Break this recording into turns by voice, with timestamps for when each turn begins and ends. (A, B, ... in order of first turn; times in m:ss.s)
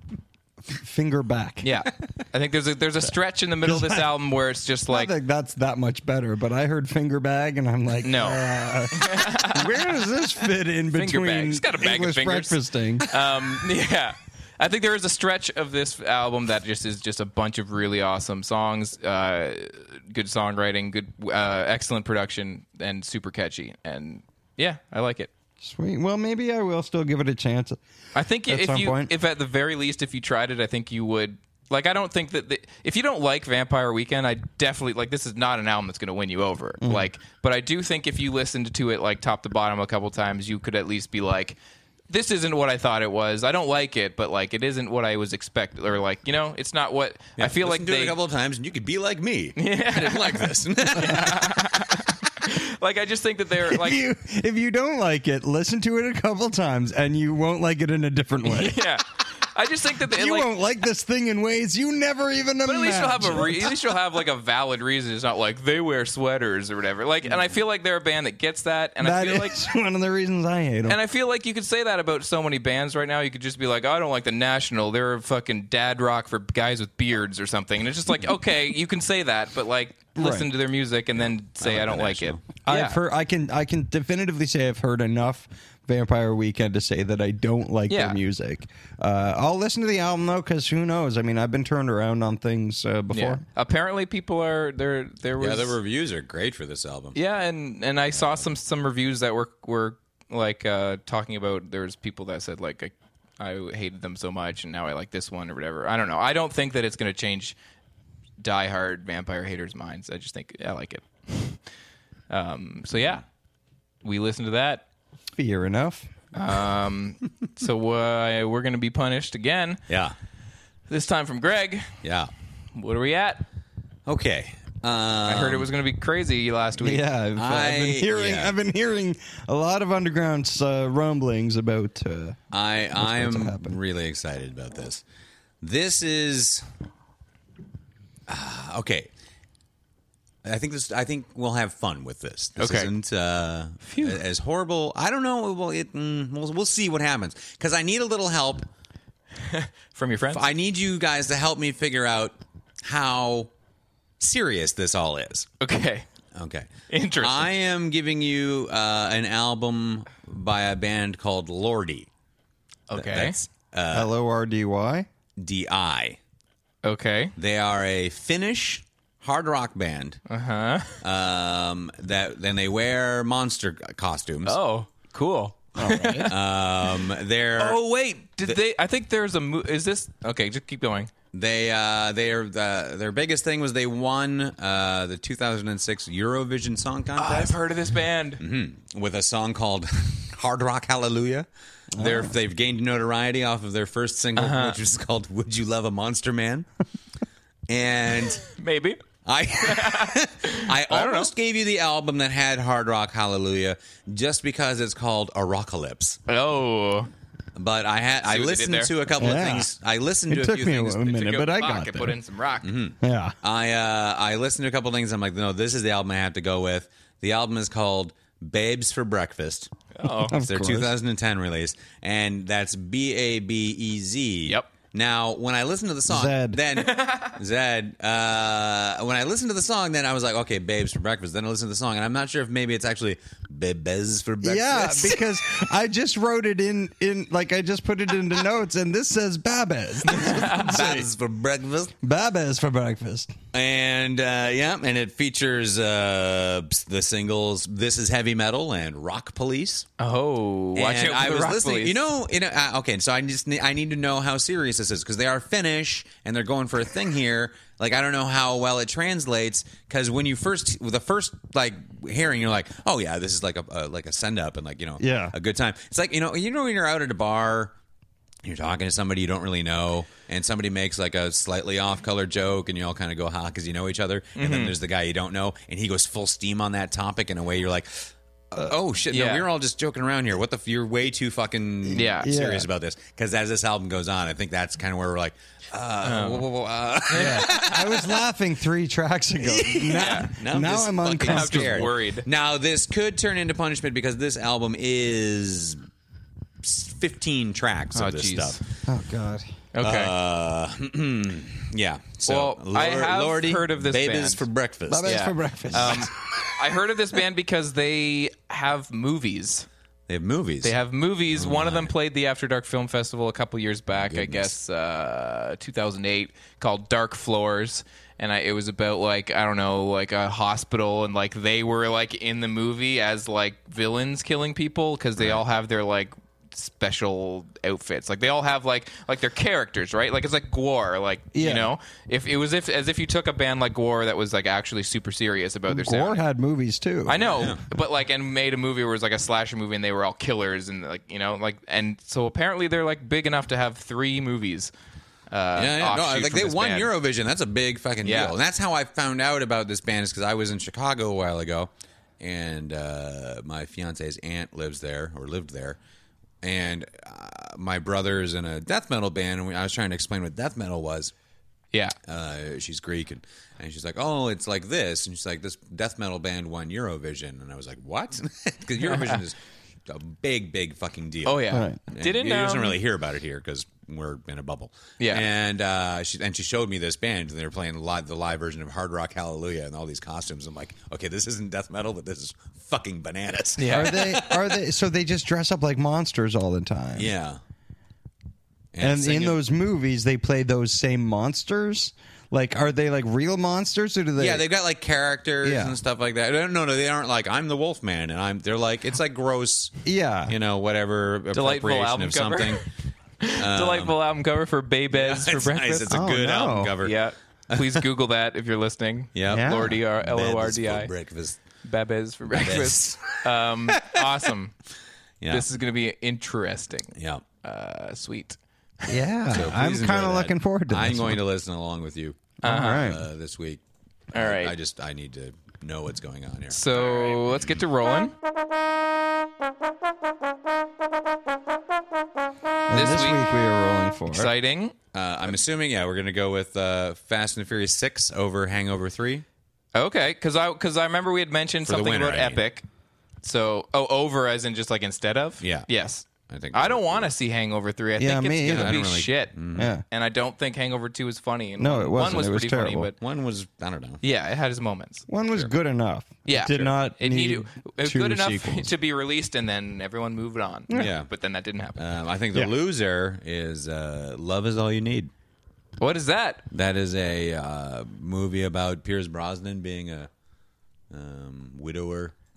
0:00.8-0:01.7 A
0:01.6-0:05.1 B
0:03.6-0:04.2 A
0:04.9-0:13.0 A
0:08.0-0:09.7 B
0:10.9-0:25.3 B
0:25.6-0:27.8 A
0:28.1-0:41.6 B
0:28.4-0:29.1 A
0:36.8-0:37.1 A
0:42.1-0:48.2 B
0:47.4-0:51.7 C
0:49.6-0:54.0 B
0:53.7-0:58.8 A
0:58.4-1:00.6 B
1:00.1-1:03.8 A
1:02.7-1:09.6 B
1:09.0-1:11.0 A
1:10.9-1:23.0 B
1:20.2-1:20.5 A
1:21.6-1:22.4 C
1:22.6-1:33.4 A
1:27.9-1:28.2 B
1:33.1-1:35.8 B
1:35.4-1:37.2 C
1:37.2-1:47.6 B
1:38.2-1:38.4 C
1:48.4-1:51.6 B
1:52.3-1:53.2 B
1:54.0-1:54.8 B
1:55.4-1:56.1 A
1:56.3-1:59.8 B
1:59.9-2:00.2 C
2:00.9-2:02.0 B
2:02.0-2:02.3 C
2:02.8-2:03.4 B
2:04.1-2:05.7 C
2:05.3-2:07.0 B
2:06.8-2:12.4 A
2:07.4-2:08.5 C
2:12.5-2:15.0 C
2:13.0-2:13.8 A
2:15.6-2:16.6 C
2:18.3-2:19.1 C
2:20.4-2:28.7 C
2:22.6-2:22.9 B
2:23.8-2:24.2 B
2:29.4-2:30.4 B
2:30.3-2:33.5 C
2:34.2-2:35.5 C
2:35.6-2:36.1 B
2:36.3-2:36.7 C
2:36.9-2:37.5 B
2:37.2-2:42.1 C
2:42.9-2:43.4 B
2:43.0-2:44.1 C
2:43.9-2:45.1 A
2:45.4-2:46.2 C
2:46.8-2:47.3 B
2:47.4-2:50.2 C
2:50.3-2:51.0 B
2:51.0-2:54.6 C
2:54.4-2:56.3 B
2:55.8-2:56.3 A
2:56.3-2:57.8 C
2:57.6-3:01.1 B
3:01.3-3:07.6 C
3:07.2-3:08.4 B
3:08.4-3:16.7 C
3:12.0-3:12.3 A
3:14.4-3:14.8 B
3:17.7-3:18.5 C
3:18.5-3:19.0 B
3:19.2-3:26.2 C
3:19.6-3:21.3 B
3:26.3-3:27.1 B
3:27.6-3:31.2 C
3:28.2-3:28.9 B
3:29.2-3:29.7 A
3:30.3-3:32.2 A
3:31.1-3:32.7 B
3:32.6-3:39.7 C
3:33.0-3:33.3 A
3:39.9-3:40.4 B
3:40.3-3:41.0 A
3:40.3-3:55.2 C
3:46.1-3:46.6 A
3:46.8-3:47.4 B
3:54.4-4:01.1 A
4:00.1-4:00.6 B
4:00.2-4:01.9 C
4:02.0-4:03.3 A
4:03.5-4:09.9 C
4:10.0-4:12.0 B
4:10.8-4:27.7 C
4:25.0-4:25.4 A
4:28.4-4:48.2 C
4:34.4-4:34.7 B
4:39.1-4:39.5 B
4:41.9-4:42.3 B
4:42.0-4:42.7 A
4:46.0-4:46.5 B
4:47.1-4:47.5 B
4:47.1-4:51.9 A
4:49.6-4:55.8 C
4:49.9-4:50.3 B
4:51.2-4:52.3 B
4:56.6-4:58.6 C
4:58.0-4:58.6 B
4:58.9-4:59.6 A
4:59.7-5:00.1 B
4:59.8-5:06.1 C
5:02.3-5:04.4 B
5:04.9-5:06.1 A
5:05.1-5:09.7 B
5:10.1-5:10.8 C
5:10.6-5:36.2 B
5:11.3-5:11.9 C
5:13.9-5:14.5 C
5:25.2-5:25.4 C
5:31.3-5:31.7 A
5:35.7-5:37.2 A
5:37.1-5:44.7 B
5:37.2-5:37.6 C
5:45.3-5:46.9 B
5:45.6-5:55.8 C
5:48.0-5:48.4 B
5:56.4-6:01.1 C
6:02.1-6:09.4 C
6:08.9-6:09.2 B
6:09.9-6:24.6 C
6:11.3-6:12.8 B
6:11.5-6:11.8 A
6:15.0-6:15.2 B
6:23.6-6:24.0 B
6:23.7-6:27.1 A
6:27.0-6:27.4 C
6:28.7-6:29.4 C
6:28.8-6:34.4 A
6:34.2-6:42.6 C
6:35.4-6:35.8 A
6:39.8-6:40.3 A
6:41.3-6:42.6 B
6:43.2-6:45.9 B
6:43.4-6:44.0 C
6:44.9-6:46.9 C
6:45.9-6:46.8 A
6:46.8-6:50.9 B
6:47.5-6:47.8 C
6:49.1-6:51.4 C
6:49.3-6:49.7 A
6:51.6-6:54.5 B
6:52.3-6:54.1 C
6:55.2-6:55.5 C
6:55.3-6:58.4 B
6:57.0-6:57.2 C
6:58.9-7:01.2 A
6:59.3-7:03.6 C
7:02.4-7:03.0 A
7:02.4-7:02.9 B
7:04.1-7:04.5 B
7:04.1-7:07.6 C
7:06.5-7:08.1 B
7:12.7-7:14.3 A
7:12.7-7:13.2 B
7:14.1-7:14.7 B
7:14.9-7:19.2 C
7:19.8-7:22.6 B
7:21.7-7:22.4 C
7:23.2-7:29.4 B
7:25.4-7:25.7 C
7:26.3-7:27.1 C
7:28.0-7:28.8 A
7:28.5-7:29.7 C
7:29.6-7:29.8 A
7:29.9-7:33.0 B
7:31.6-7:32.9 A
7:33.0-7:34.0 C
7:34.0-7:35.0 B
7:35.1-7:38.7 A
7:36.3-7:41.8 B
7:40.7-7:41.1 C
7:41.8-7:45.1 C
7:45.8-7:46.4 B
7:46.5-7:50.1 C
7:50.9-7:52.1 C